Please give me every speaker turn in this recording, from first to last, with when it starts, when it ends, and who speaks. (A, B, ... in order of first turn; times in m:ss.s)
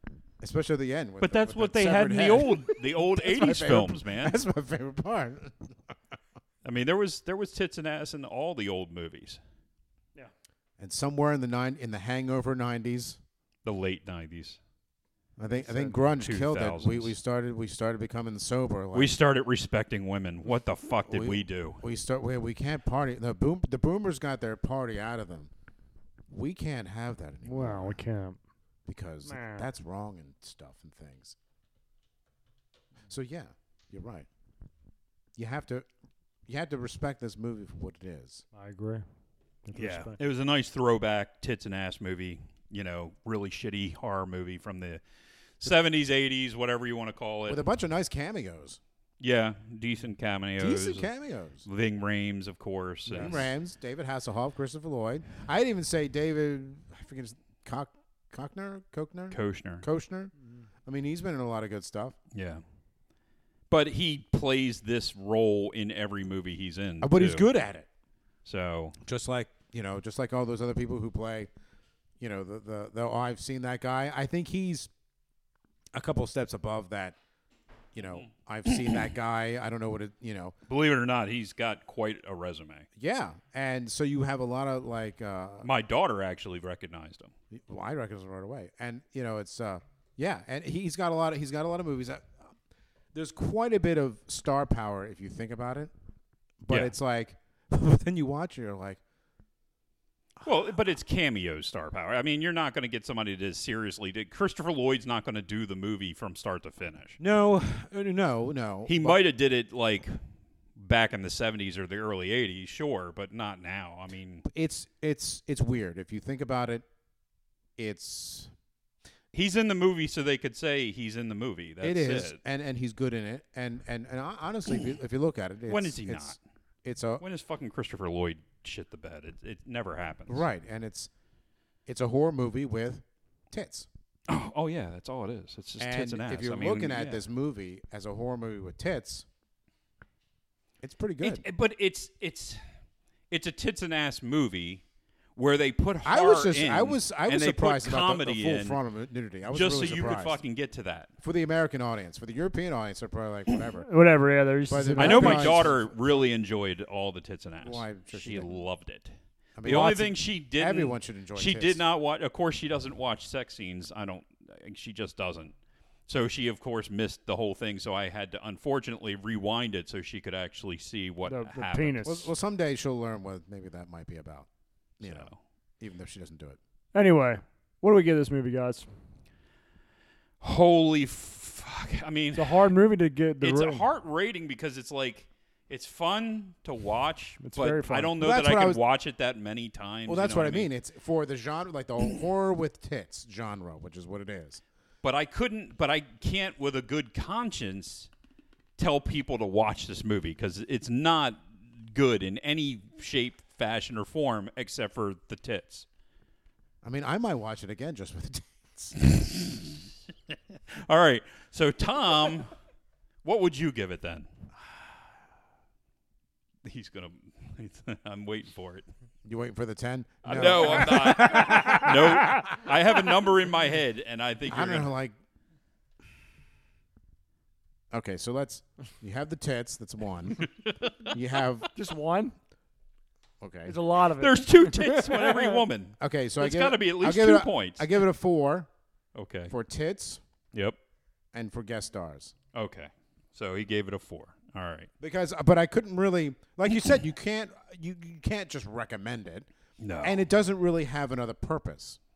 0:00.4-0:05.9 A
0:01.2-0:04.4 B
0:06.6-0:09.4 B
0:10.8-0:13.2 A
0:13.6-0:14.6 B
0:15.4-0:19.1 A
0:15.5-0:16.0 C
0:16.2-0:17.1 B
0:18.9-0:21.8 B
0:21.1-0:25.5 A
0:26.3-0:28.0 A
0:27.4-0:28.4 C
0:28.9-0:31.4 A
0:29.3-0:29.7 C
0:33.1-0:34.3 A
0:35.4-0:35.9 A
0:36.5-0:38.4 A
0:38.5-0:39.0 C
0:39.6-0:40.2 C
0:39.7-0:45.0 B
0:45.6-0:47.6 B
0:47.5-0:48.8 A
0:49.2-0:51.1 B
0:50.6-0:51.6 A
0:51.6-0:53.5 B
0:53.1-0:53.4 C
0:53.1-1:00.3 A
0:59.3-0:59.9 B
1:00.8-1:02.2 A
1:02.3-1:02.6 B
1:03.7-1:07.5 B
1:07.0-1:07.9 A
1:08.4-1:09.0 B
1:09.0-1:11.5 A
1:12.2-1:14.9 A
1:15.9-1:17.2 A
1:17.9-1:20.6 A
1:18.7-1:19.0 B
1:20.7-1:22.9 B
1:23.0-1:25.7 A
1:25.6-1:27.3 B
1:27.5-1:32.4 A
1:33.1-1:35.9 A
1:36.6-1:39.0 A
1:40.4-1:47.2 B
1:47.2-1:49.2 A
1:48.9-1:50.2 B
1:50.8-1:54.4 B
1:54.4-1:56.8 A
1:57.8-1:58.5 A
1:59.3-2:02.4 B
2:01.8-2:07.2 A
2:05.7-2:06.4 B
2:07.2-2:10.4 B
2:10.3-2:11.1 A
2:11.9-2:13.9 A
2:14.3-2:17.2 B
2:15.8-2:19.3 A
2:20.8-2:21.4 A
2:21.2-2:22.6 B
2:23.3-2:24.8 B
2:25.4-2:28.8 B
2:26.0-2:30.4 A
2:29.5-2:31.1 B
2:31.2-2:33.9 A
2:33.8-2:35.7 C
2:34.7-2:35.9 A
2:35.0-2:39.1 B
2:37.6-2:38.6 A
2:39.6-2:41.8 A
2:39.6-2:45.5 B
2:46.1-2:52.0 B
2:51.3-2:52.3 C
2:52.0-2:54.5 A
2:55.0-2:56.6 A
2:55.0-2:55.4 B
2:56.9-2:58.9 C
3:00.4-3:02.7 B
3:02.3-3:03.9 C
3:03.4-3:10.7 B
3:07.4-3:08.2 C
3:08.2-3:08.8 A
3:10.1-3:14.6 A
3:15.0-3:18.1 B
3:18.8-3:25.9 B
3:26.8-3:29.0 A
3:29.0-3:32.5 B
3:33.2-3:34.3 B
3:36.6-3:38.9 B
3:39.2-3:42.3 A
3:40.2-3:44.9 B
3:41.5-3:42.4 C
3:44.5-3:45.1 A
3:47.9-3:50.5 A
3:50.6-3:51.1 B
3:51.0-3:51.7 A
3:51.7-3:52.3 C
3:53.4-3:53.8 A
3:53.6-3:55.6 C
3:54.2-3:57.9 B
3:56.0-3:58.7 A
3:59.1-3:59.5 B
3:59.5-4:00.2 A
4:01.3-4:02.3 A
4:02.5-4:04.9 B
4:05.0-4:09.5 A
4:09.8-4:10.2 B
4:10.0-4:12.0 A